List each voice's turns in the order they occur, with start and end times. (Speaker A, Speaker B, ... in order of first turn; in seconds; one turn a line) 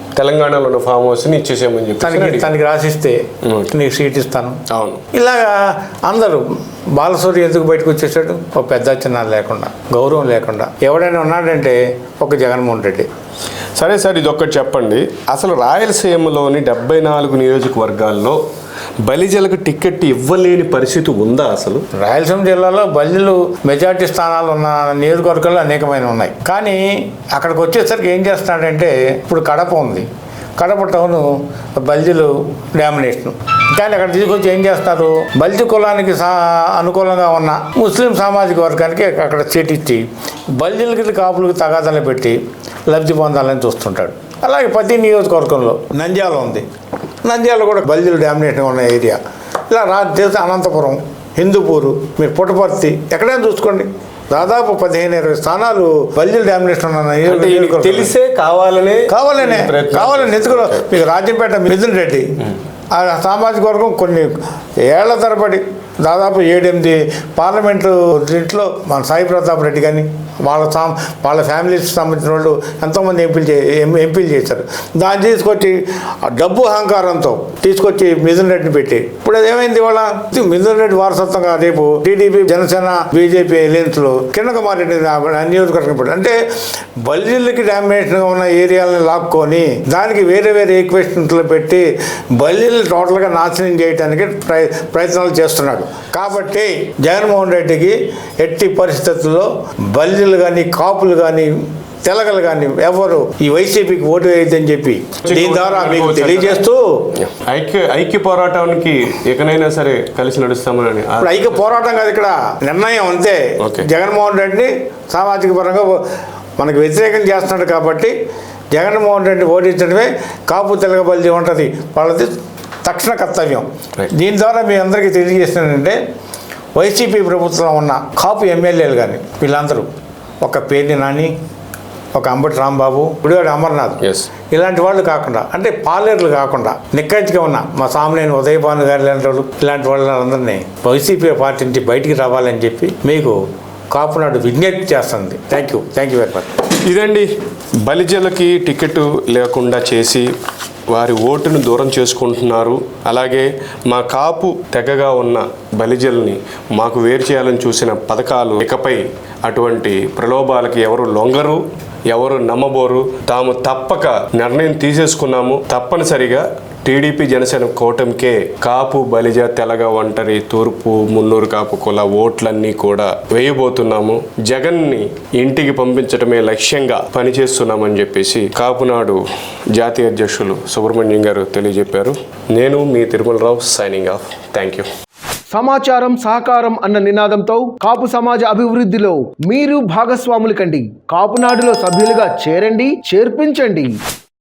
Speaker A: 0.1-2.5
Speaker B: 2.0-3.2
Speaker B: 3.7-4.6
Speaker A: 4.7-5.0
Speaker B: 5.1-6.4
Speaker B: 7.0-13.1
Speaker A: 13.8-18.4
Speaker A: 19.1-21.8
Speaker B: 21.9-30.1
Speaker B: 30.6-40.0
Speaker B: 40.5-46.6
Speaker B: 47.2-49.2
Speaker B: 49.7-58.1
Speaker A: 57.3-60.9
Speaker B: 59.1-62.3
Speaker B: 62.9-64.3
Speaker B: 64.8-86.4
Speaker B: 87.0-101.5
Speaker B: 102.0-107.0
Speaker A: 105.2-111.8
Speaker B: 111.2-116.0
Speaker A: 113.6-113.8
Speaker B: 116.6-118.1
Speaker B: 118.7-122.3
Speaker B: 122.8-126.0
Speaker B: 126.7-129.9
Speaker B: 130.4-131.3
Speaker B: 132.1-143.4
Speaker B: 143.9-146.6
Speaker A: 146.8-147.3
Speaker A: 147.8-150.3
Speaker A: 150.9-179.2
Speaker A: 179.8-184.9
Speaker C: 185.5-193.9